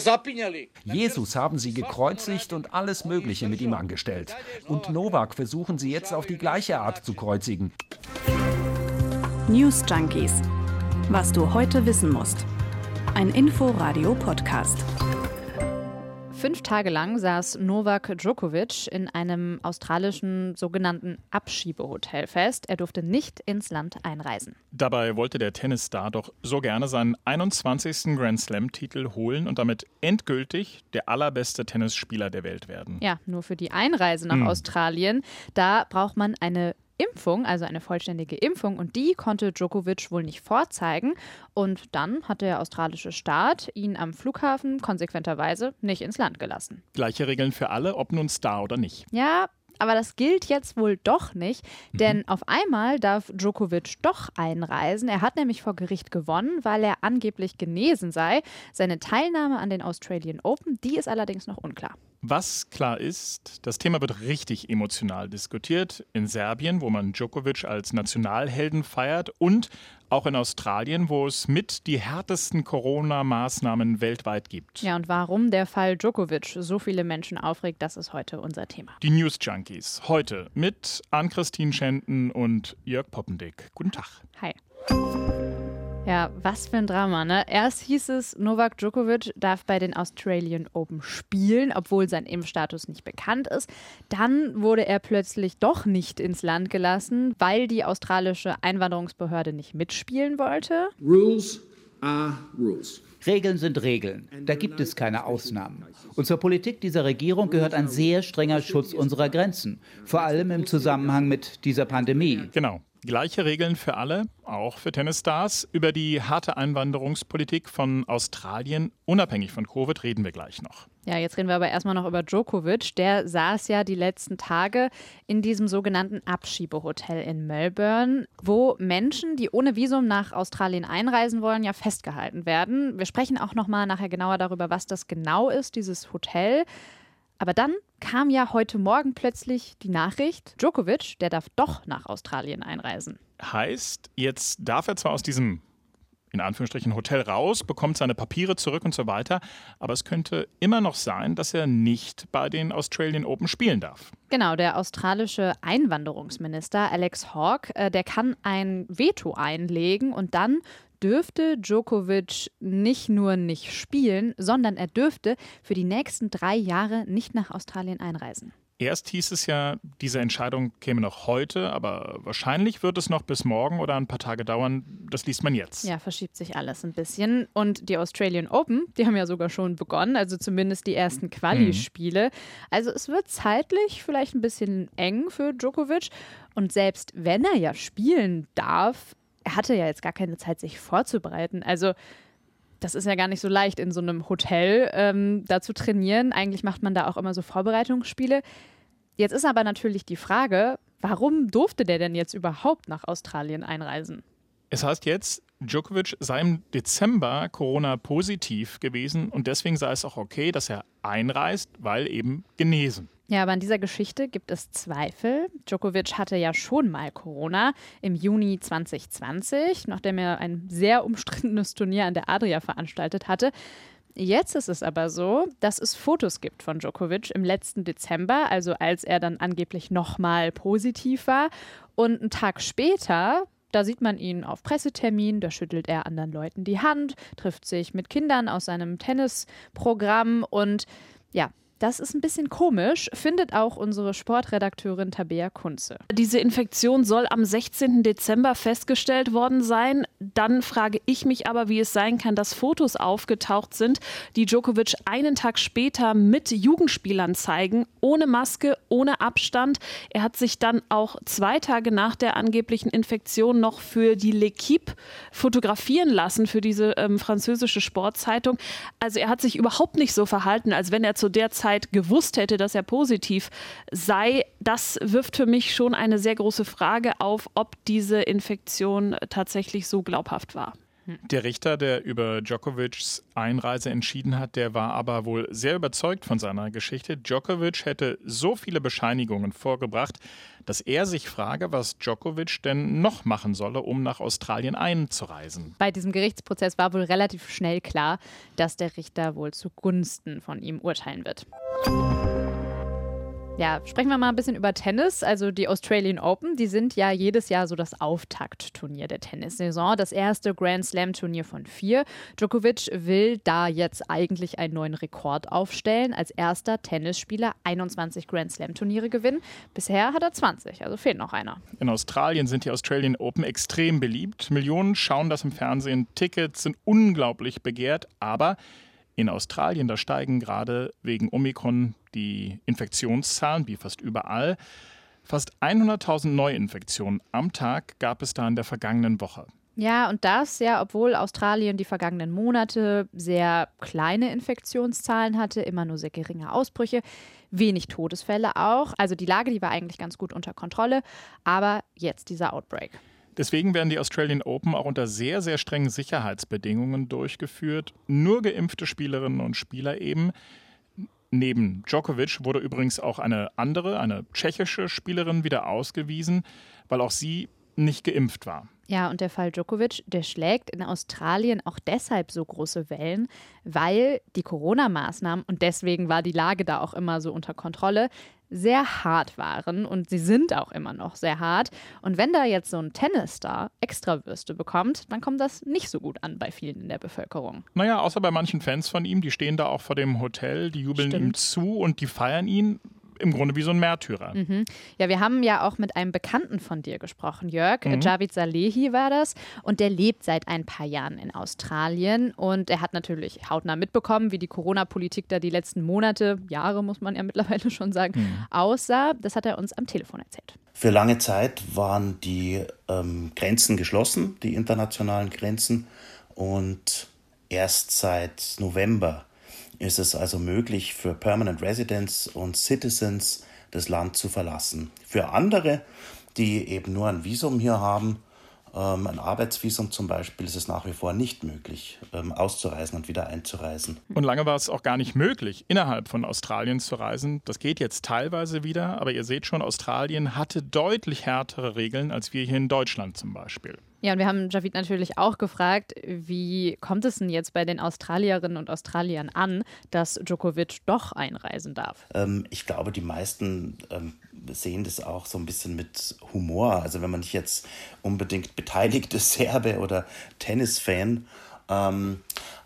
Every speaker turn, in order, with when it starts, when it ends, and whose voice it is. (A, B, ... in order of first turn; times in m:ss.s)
0:00.8-0:07.7 A
0:09.5-0:10.4 B
0:11.1-0:12.5 B
0:13.2-0:14.8 B
0:16.3-0:24.6 C
0:24.7-0:33.0 D
0:33.0-0:46.8 C
0:34.3-0:34.6 D
0:47.0-0:49.1 D
0:49.1-1:02.0 C
1:02.2-1:14.9 D
1:14.8-1:19.0 C
1:19.0-1:24.2 D
1:26.0-1:40.9 C
1:41.0-1:43.0 E
1:43.2-1:52.5 F
1:44.3-1:45.6 E
1:47.4-1:49.4 E
1:50.1-1:51.2 E
1:51.9-1:52.3 E
1:52.5-2:00.9 D
2:01.0-2:16.7 C
2:17.4-2:23.2 C
2:23.4-2:25.6 D
2:26.3-2:34.1 D
2:34.3-2:48.5 C
2:48.8-2:55.9 D
2:55.8-3:12.0 C
3:01.5-3:01.8 D
3:12.8-3:18.4 C
3:19.2-3:24.2 C
3:24.7-3:33.1 D
3:33.3-3:43.5 C
3:44.2-4:06.0 C
4:06.1-4:40.8 G
4:41.3-4:55.8 D
4:55.8-5:01.4 C
5:03.6-5:21.6 C
5:21.8-5:28.6 D
5:29.2-5:34.6 D
5:35.3-5:39.5 D
5:39.8-5:53.0 C
5:53.4-6:00.3 D
6:01.3-6:08.7 D
6:08.9-6:27.7 C
6:27.8-6:34.4 D
6:31.0-6:31.4 C
6:34.3-6:50.6 C
6:37.8-6:38.1 D
6:48.2-6:48.4 D
6:50.8-6:59.3 H
6:59.8-7:14.0 H
7:14.1-7:23.8 D
7:24.0-7:32.0 C
7:32.1-7:42.2 H